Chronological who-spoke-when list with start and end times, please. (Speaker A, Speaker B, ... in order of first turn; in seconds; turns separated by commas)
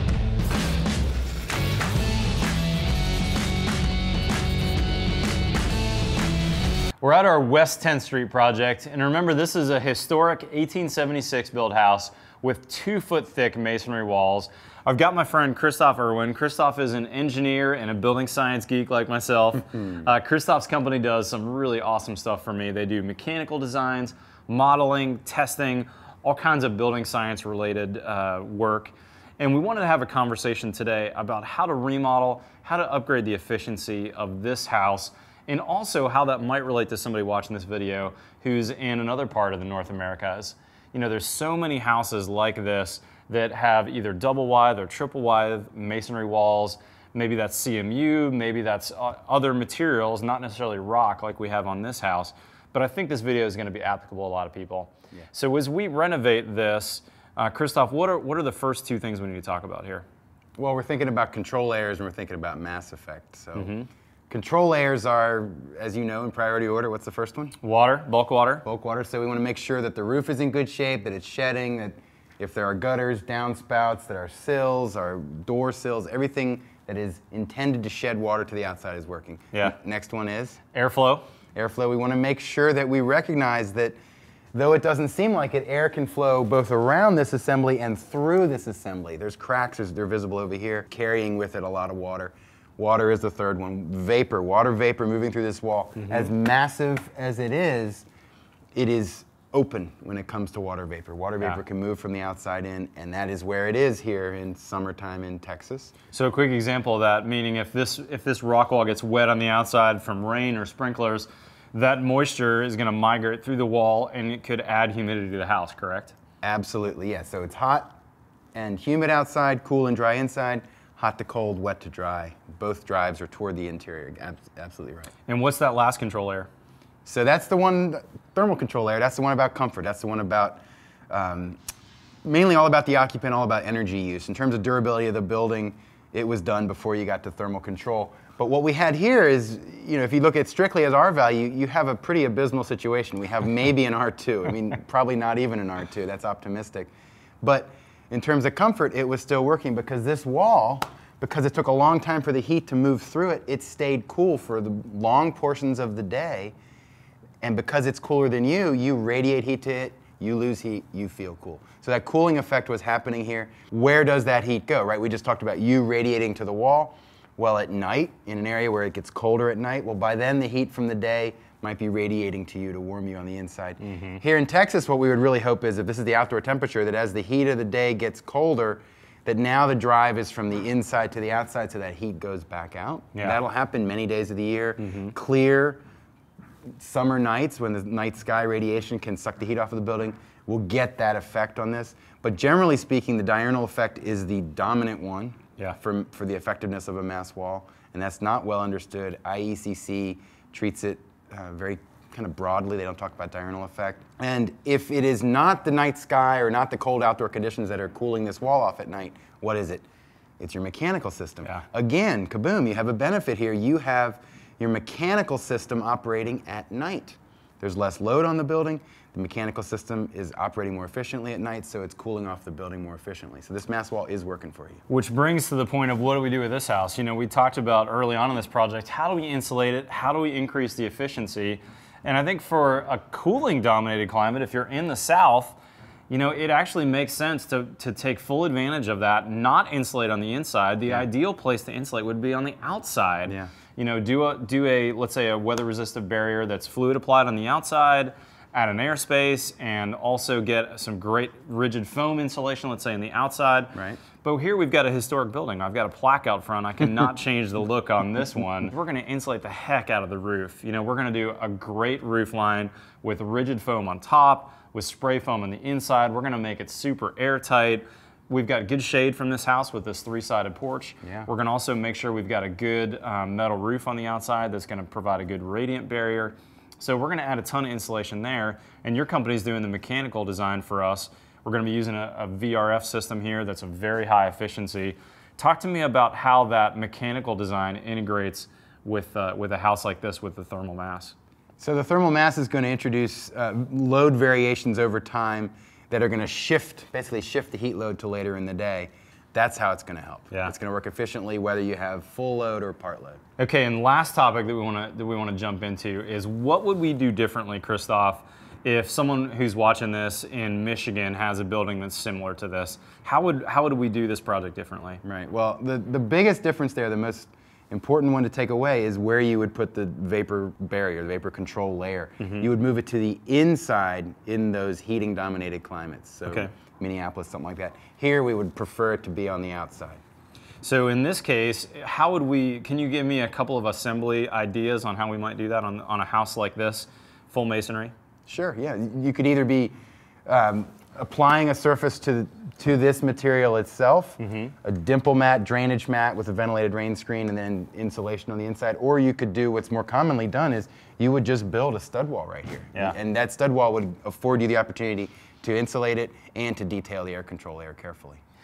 Speaker A: 7.0-60.0, Speaker B: 60.6-63.7, Speaker A: 63.5-63.9, Speaker B: 64.3-67.6, Speaker A: 67.6-68.6, Speaker B: 68.6-80.6, Speaker A: 80.7-81.2, Speaker B: 81.5-84.0, Speaker B: 84.5-98.0, Speaker B: 98.7-105.9, Speaker A: 106.1-116.1, Speaker B: 116.4-118.0, Speaker B: 118.5-125.1, Speaker A: 125.3-126.5, Speaker B: 127.0-131.6, Speaker B: 132.2-146.9, Speaker B: 147.4-156.5, Speaker B: 157.4-185.8, Speaker A: 173.8-174.2, Speaker A: 183.1-183.4, Speaker A: 184.8-185.1, Speaker B: 186.8-209.8, Speaker B: 210.4-224.8, Speaker A: 224.9-235.6, Speaker A: 236.1-291.1, Speaker B: 253.7-254.0, Speaker B: 271.0-271.3, Speaker B: 291.6-303.2, Speaker A: 303.4-315.0, Speaker B: 315.0-330.0, Speaker A: 322.2-322.4, Speaker A: 330.6-337.9, Speaker B: 338.3-339.7, Speaker B: 340.2-358.2, Speaker A: 344.2-344.5